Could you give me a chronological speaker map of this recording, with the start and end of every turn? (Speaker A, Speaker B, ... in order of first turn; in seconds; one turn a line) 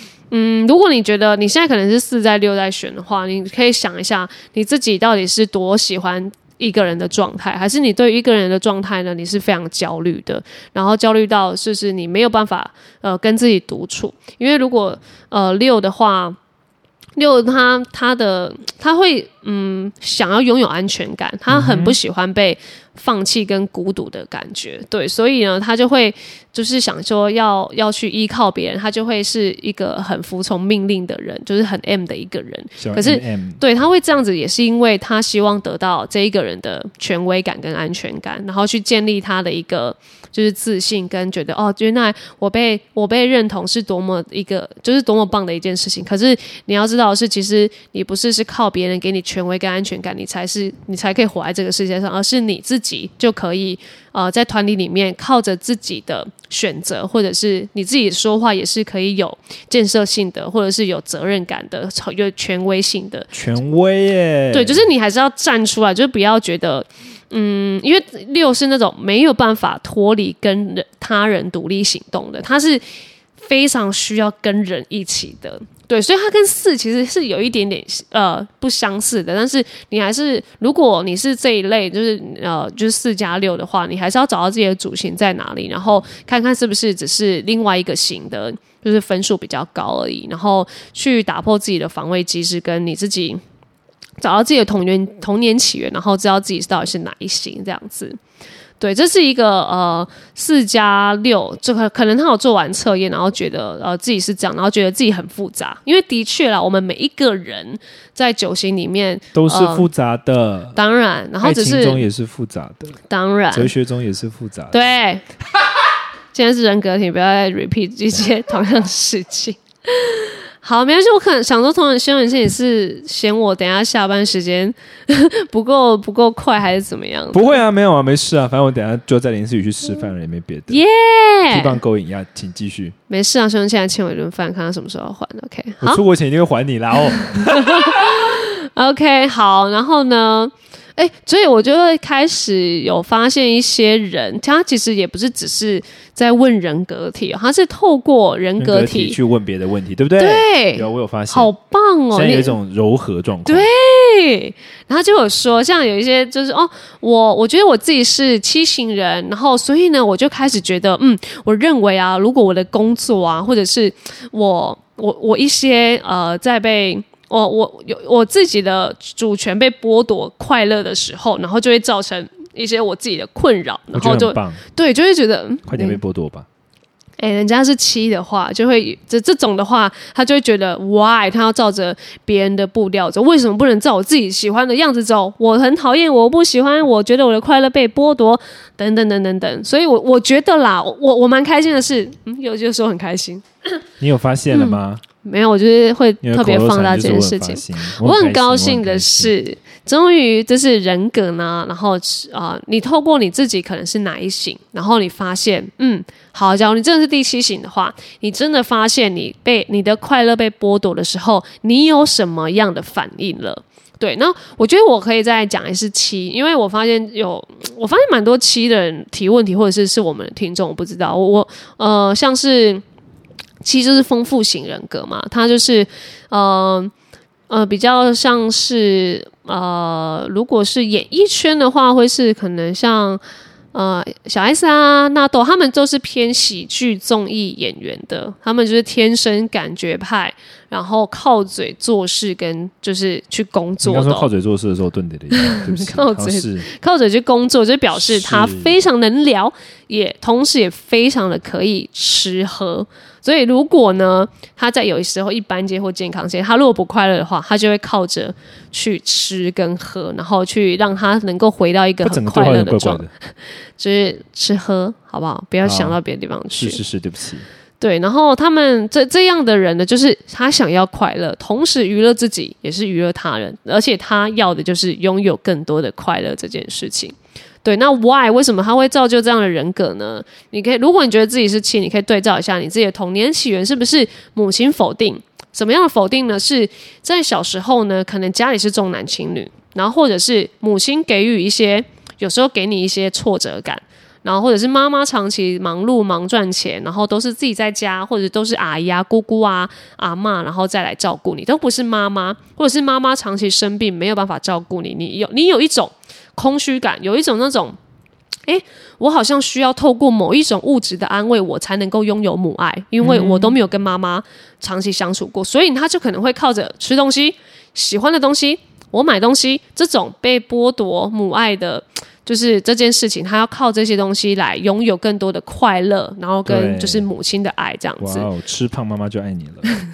Speaker A: 0.3-16.4
Speaker A: 17.2-63.3
Speaker B: 21.5-22.0
Speaker B: 32.8-33.6
Speaker B: 63.3-64.8
Speaker A: 64.5-72.8
Speaker A: 73.4-93.4
Speaker A: 94.2-98.2
Speaker A: 98.8-109.9
Speaker B: 109.3-110.8
Speaker A: 110.8-112.1
Speaker B: 111.4-113.0
Speaker A: 113.1-113.7
Speaker B: 113.5-114.8
Speaker A: 114.7-115.2
Speaker A: 116.3-127.6
Speaker B: 127.3-130.8
Speaker A: 130.7-131.8
Speaker B: 131.5-132.9
Speaker A: 133.1-136.0
Speaker B: 135.8-138.2
Speaker A: 137.3-149.2
Speaker B: 148.6-151.5
Speaker A: 150.2-152.6
Speaker B: 152.1-153.7
Speaker A: 153.4-176.0
Speaker B: 173.9-174.6
Speaker B: 175.6-176.4
Speaker A: 177.2-193.8
Speaker B: 194.0-195.0
Speaker A: 194.5-222.8
Speaker B: 196.2-199.3
Speaker A: 223.6-226.9
Speaker A: 227.5-233.2
Speaker A: 233.7-244.3
Speaker B: 243.8-246.7
Speaker A: 245.3-263.1
Speaker B: 247.9-248.8
Speaker B: 262.0-263.1
Speaker A: 263.8-266.8
Speaker B: 265.6-266.0
Speaker B: 266.5-267.5
Speaker A: 267.8-307.8
Speaker A: 308.4-328.3
Speaker B: 313.0-313.6
Speaker B: 326.4-327.1
Speaker B: 328.0-329.7